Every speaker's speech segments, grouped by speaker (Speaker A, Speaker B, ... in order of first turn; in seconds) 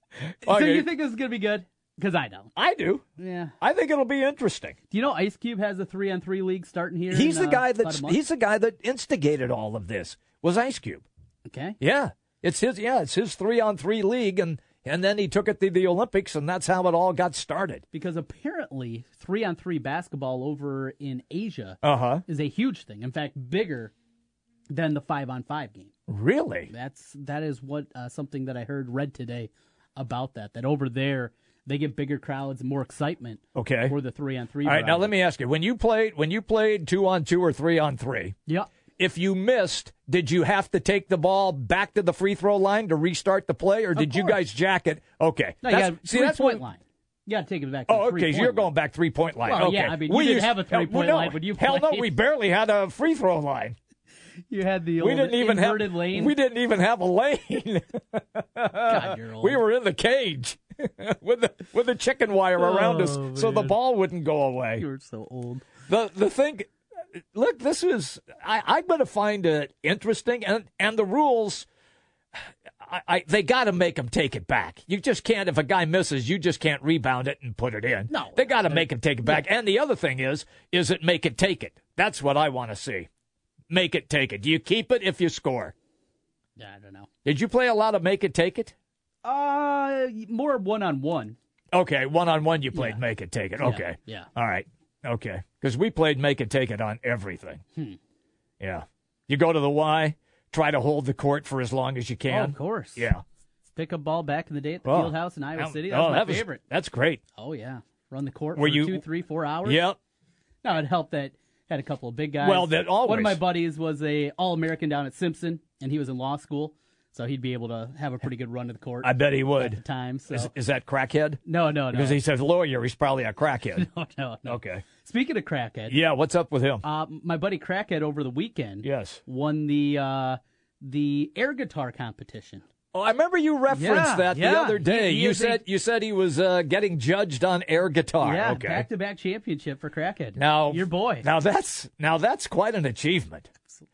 Speaker A: 0.4-0.9, 2.6-3.0, 3.6-4.8, 7.1-11.1, 11.8-17.8, 21.8-22.2, 26.1-26.7, 33.5-33.9, 34.6-38.4, 39.0-46.6, 47.9-53.8, 55.0-64.8, 65.9-66.7, 67.3-71.7, 72.8-83.1, 83.7-85.7, 87.2-88.7, 91.7-97.6, 98.6-103.2, 104.8-107.2, 108.6-109.0, 109.7-110.0, 112.4-113.4, 119.0-123.9, 124.5-124.8, 125.9-126.8, 128.8-129.2, 132.9-138.9, 140.4-143.5
Speaker B: 0.5-2.5, 3.2-3.5, 4.9-8.2, 11.5-11.8, 17.9-23.9, 24.7-25.9, 26.7-35.1, 44.0-44.4, 45.6-48.7, 49.5-52.1, 54.5-56.3, 58.9-59.6, 62.6-63.8, 64.8-65.7, 78.1-79.4, 86.6-87.1, 89.2-91.4, 92.7-93.0, 93.6-94.3, 102.3-103.1, 103.8-106.6, 107.4-109.8, 110.6-120.5, 121.5-122.2, 123.8-126.0, 126.8-132.6, 133.7-135.6, 138.2-141.3